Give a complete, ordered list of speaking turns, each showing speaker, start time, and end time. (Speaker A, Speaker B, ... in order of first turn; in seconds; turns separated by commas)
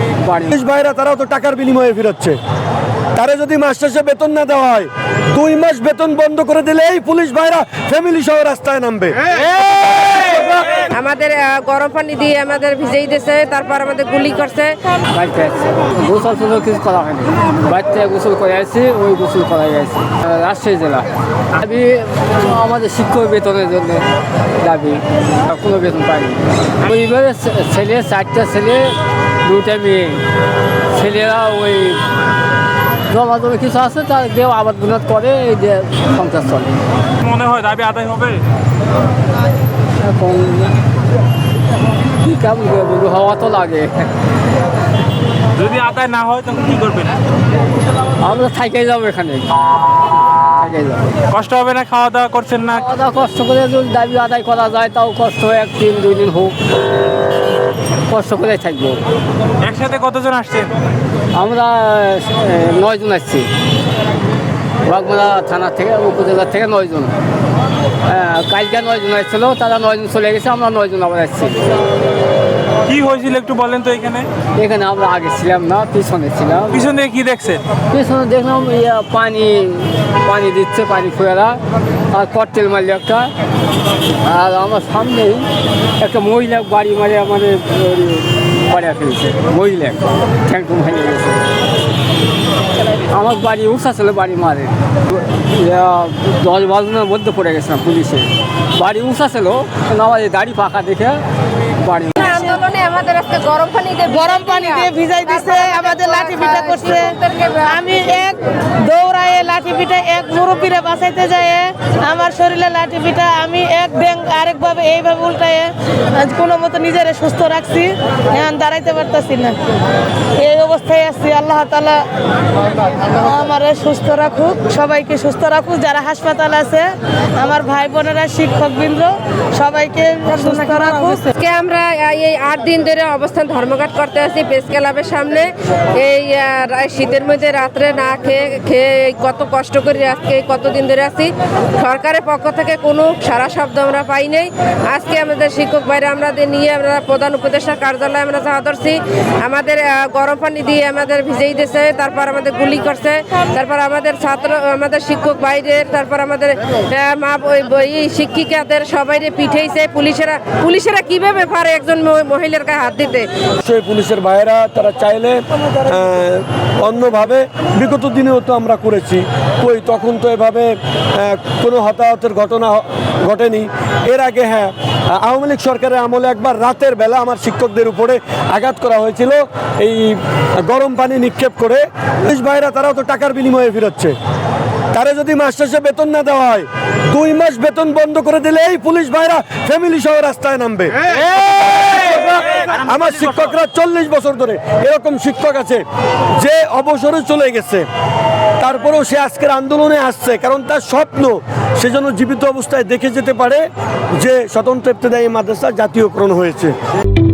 Speaker A: 0.2-0.5, Speaker B: 0.5-2.4, Speaker B: 3.1-9.3, Speaker B: 10.1-10.8, Speaker C: 10.9-14.8, Speaker A: 15.1-24.1, Speaker A: 24.6-30.2, Speaker A: 30.9-32.0, Speaker A: 33.1-36.8, Speaker D: 37.2-38.4, Speaker A: 40.0-40.8, Speaker A: 42.2-44.1, Speaker D: 45.5-47.1, Speaker A: 48.2-49.5, Speaker A: 50.6-51.1, Speaker D: 51.3-52.8, Speaker A: 52.6-56.6, Speaker A: 58.1-59.0, Speaker D: 59.6-60.7, Speaker A: 61.3-63.5, Speaker A: 64.8-67.1, Speaker A: 68.0-71.6, Speaker D: 72.9-74.3, Speaker A: 74.5-76.8, Speaker D: 76.7-77.6, Speaker A: 77.9-81.6, Speaker A: 82.1-83.3, Speaker A: 84.2-91.5, Speaker A: 93.1-101.2, Speaker A: 101.8-102.3, Speaker C: 102.2-107.9, Speaker E: 102.2-102.6, Speaker E: 104.1-119.6, Speaker E: 120.4-122.0, Speaker E: 122.8-131.3, Speaker C: 131.3-163.3, Speaker B: 163.6-184.1, Speaker B: 184.9-195.8, Speaker B: 196.3-197.8, Speaker B: 198.6-203.6, Speaker B: 204.2-206.7